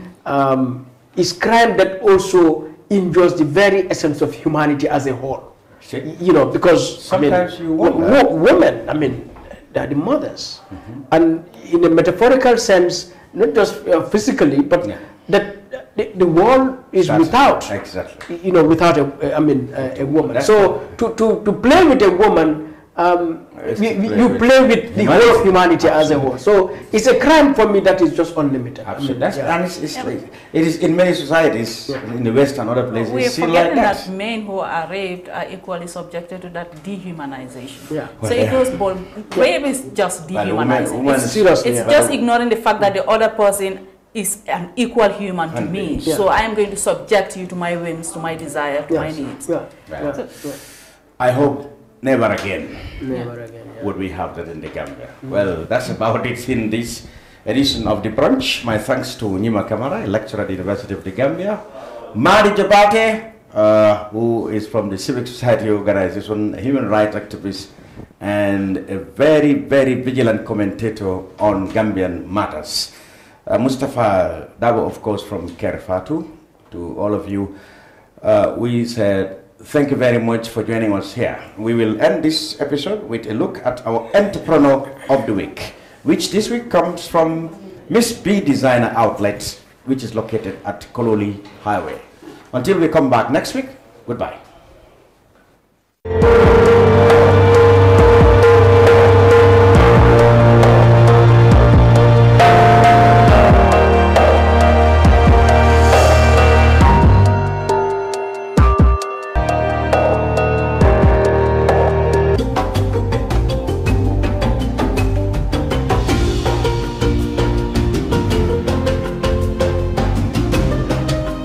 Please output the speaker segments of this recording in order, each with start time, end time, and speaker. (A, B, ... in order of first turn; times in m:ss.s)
0:00.2-0:05.5 A
0:05.8-0:06.1 B
0:06.0-0:17.7 A
0:07.0-0:08.2 B
0:17.0-0:18.2 B
0:18.3-0:29.5 A
0:19.9-0:20.9 B
0:23.6-0:26.3 B
0:28.8-0:34.1 B
0:33.0-0:49.5 C
0:38.2-0:38.8 B
0:40.3-0:42.2 B
0:41.2-0:41.9 A
0:45.5-0:46.0 B
0:48.9-0:50.6 A
0:48.9-0:49.2 B
0:49.9-0:50.5 B
0:51.2-0:53.0 B
0:53.0-0:53.8 A
0:53.8-1:01.6 B
1:02.1-1:12.9 B
1:13.4-1:17.5 B
1:18.2-1:34.4 B